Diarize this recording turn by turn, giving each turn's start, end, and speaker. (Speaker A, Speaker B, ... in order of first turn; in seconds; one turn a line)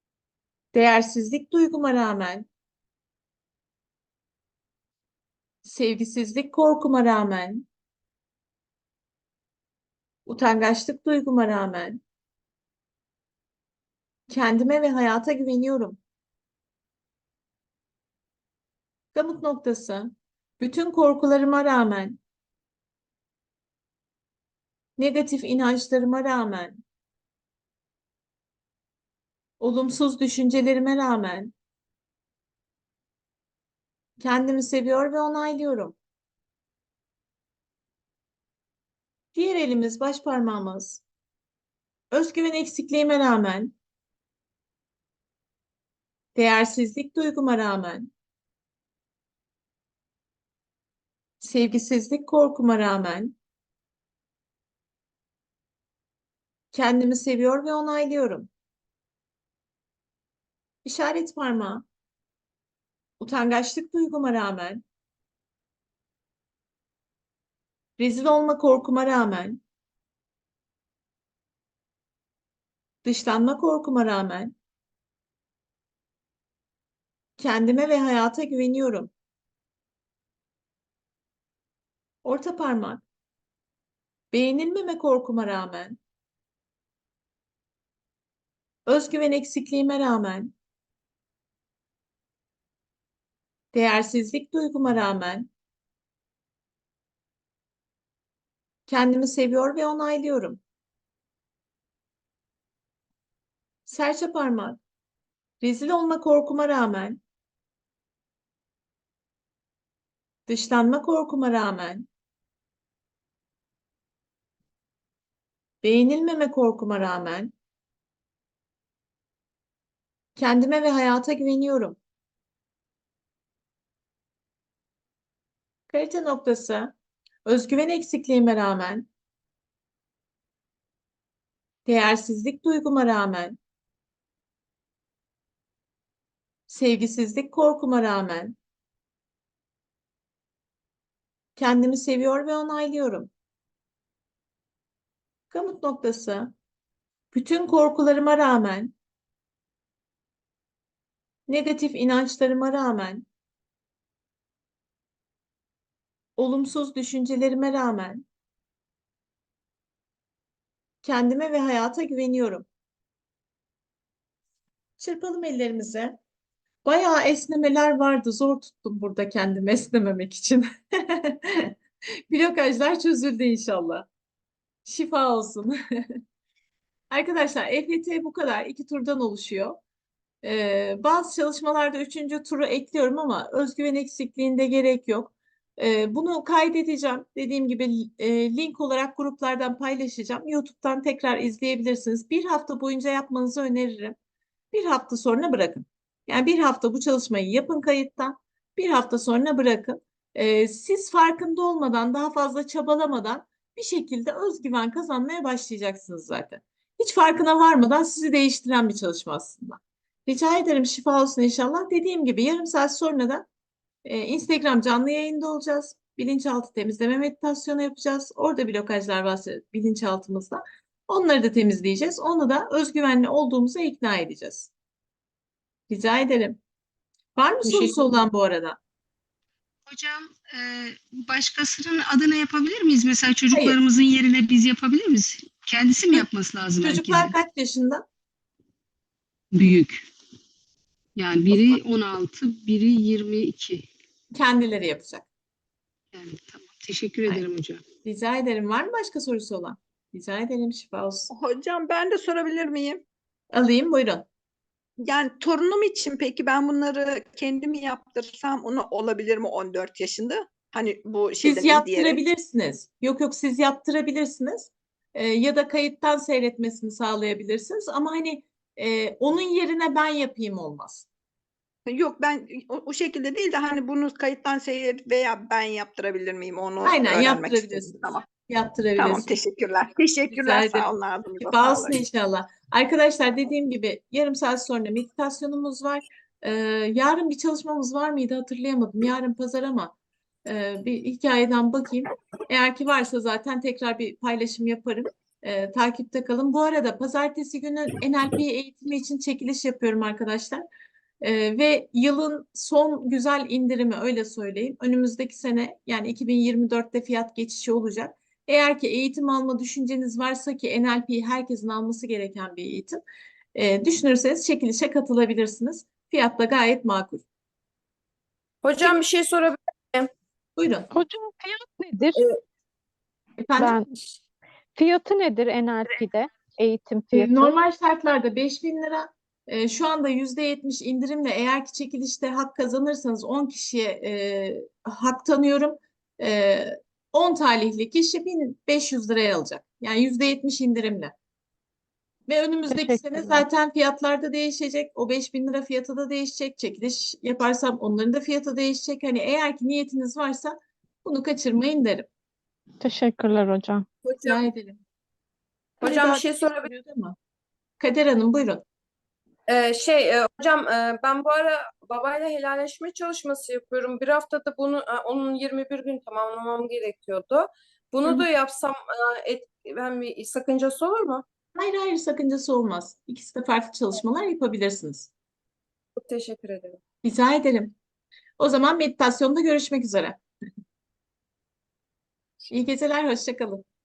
Speaker A: 0.7-2.5
Speaker A: 5.6-7.7
Speaker A: 10.2-12.0
Speaker A: 14.3-16.0
Speaker A: 19.1-22.2
Speaker A: 25.0-26.8
Speaker A: 29.6-31.5
Speaker A: 34.2-36.0
Speaker A: 39.3-41.0
Speaker A: 42.1-43.7
Speaker A: 46.3-48.1
Speaker A: 51.4-53.4
Speaker A: 56.7-58.5
Speaker A: 60.8-61.8
Speaker A: 63.2-64.8
Speaker A: 68.0-69.6
Speaker A: 73.0-74.5
Speaker A: 77.4-79.1
Speaker A: 82.2-83.0
Speaker A: 84.3-86.0
Speaker A: 88.8-90.5
Speaker A: 93.7-95.5
Speaker A: 98.9-100.6
Speaker A: 103.9-104.8
Speaker A: 105.6-107.2
Speaker A: 110.5-112.1
Speaker A: 115.8-117.5
Speaker A: 120.3-122.0
Speaker A: 125.9-126.9
Speaker A: 127.4-129.1
Speaker A: 131.8-133.6
Speaker A: 136.7-138.6
Speaker A: 141.6-143.3
Speaker A: 145.5-146.5
Speaker A: 147.3-148.9
Speaker A: 151.5-153.3
Speaker A: 156.4-158.2
Speaker A: 161.0-162.7
Speaker A: 165.0-166.2
Speaker A: 166.8-171.7
Speaker A: 172.3-174.1
Speaker A: 174.8-175.7
Speaker A: 177.1-179.8
Speaker A: 180.4-194.2
Speaker A: 194.7-213.4
Speaker A: 214.0-224.7
Speaker A: 225.9-226.6
Speaker A: 227.3-228.8
Speaker B: 229.9-237.3
Speaker A: 233.5-233.8
Speaker A: 236.8-238.0
Speaker B: 239.5-240.1
Speaker B: 241.2-243.9
Speaker A: 244.3-245.2
Speaker B: 246.1-247.8
Speaker A: 248.0-251.3
Speaker C: 251.3-253.0
Speaker A: 253.5-254.2
Speaker C: 255.0-262.2
Speaker A: 261.4-271.1
Speaker C: 271.9-278.2
Speaker A: 276.8-279.3
Speaker C: 279.0-282.0
Speaker A: 280.3-280.9
Speaker A: 281.4-289.9
Speaker A: 290.4-300.6
Speaker A: 301.2-313.0
Speaker A: 313.5-317.2
Speaker D: 318.6-320.1
Speaker A: 320.6-320.9
Speaker E: 320.9-322.2
Speaker A: 323.4-323.8
Speaker E: 323.5-323.9
Speaker E: 324.7-327.6
Speaker A: 327.1-341.1
Speaker A: 342.3-352.1
Speaker E: 342.7-343.4
Speaker E: 352.8-353.9
Speaker D: 354.0-354.4
Speaker A: 354.2-354.8
Speaker A: 355.8-357.2
Speaker D: 355.8-356.7
Speaker A: 357.8-358.6
Speaker D: 359.5-371.2
Speaker A: 371.6-375.1
Speaker D: 376.0-376.8
Speaker A: 377.0-377.7
Speaker A: 378.4-380.2
Speaker A: 382.5-383.6